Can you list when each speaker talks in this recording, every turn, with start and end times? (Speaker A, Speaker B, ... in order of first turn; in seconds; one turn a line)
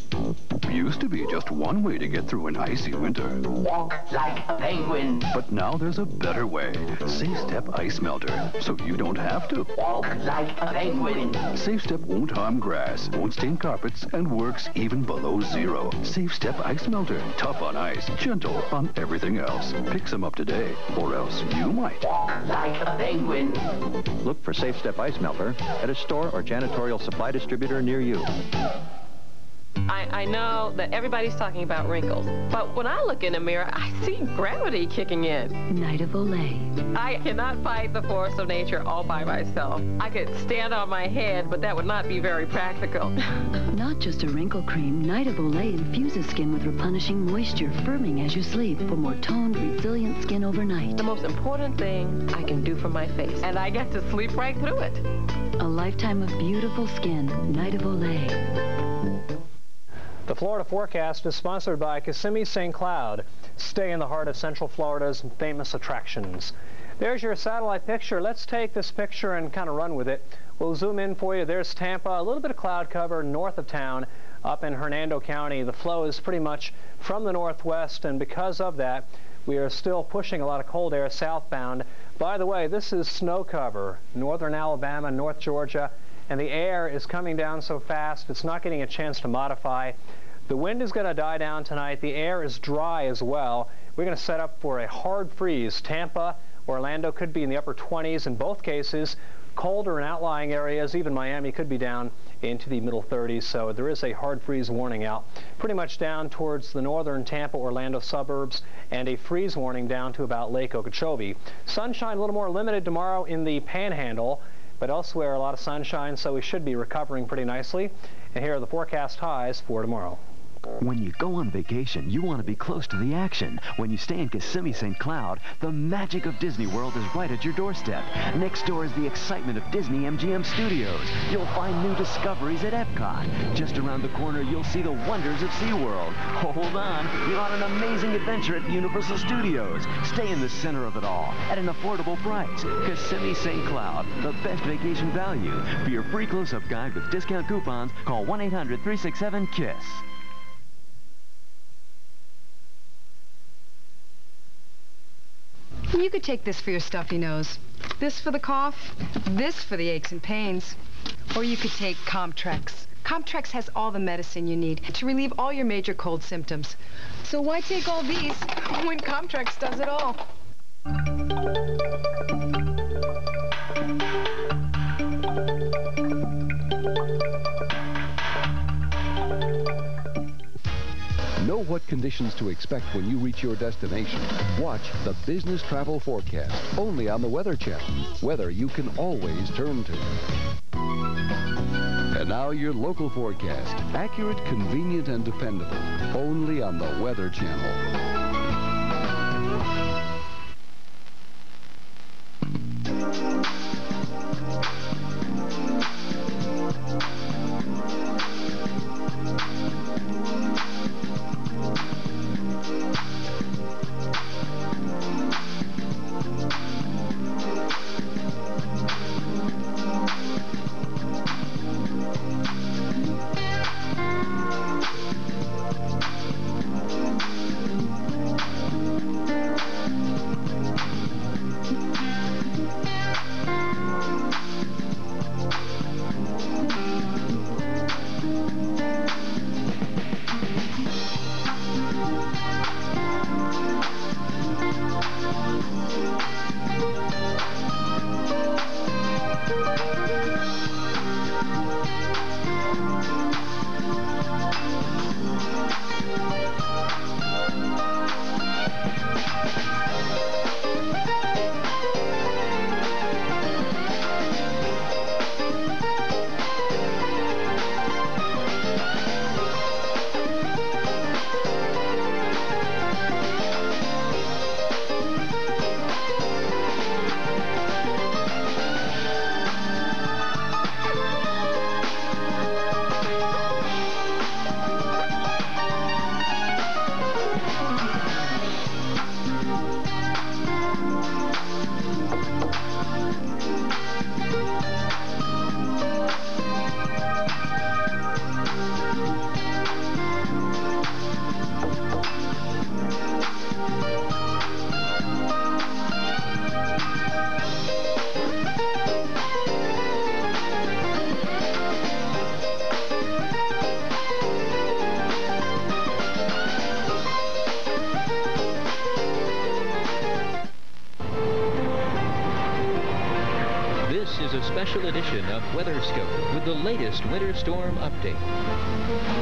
Speaker A: 0.6-3.5
Speaker B: 4.1-5.1
Speaker A: 5.3-9.7
Speaker B: 10.0-10.9
Speaker A: 11.5-22.0
Speaker B: 22.6-23.5
Speaker C: 24.2-28.3
Speaker D: 29.9-35.6
Speaker E: 35.7-36.8
Speaker D: 36.9-43.2
Speaker E: 43.7-51.0
Speaker D: 51.0-55.0
Speaker E: 55.6-58.4
Speaker F: 60.3-89.9
Speaker F: 90.5-120.2
Speaker G: 120.8-150.0
Speaker H: 155.9-160.8
Speaker H: 161.3-170.2
Speaker I: 181.4-190.3
Speaker I: 192.1-197.8
Speaker J: 323.8-328.3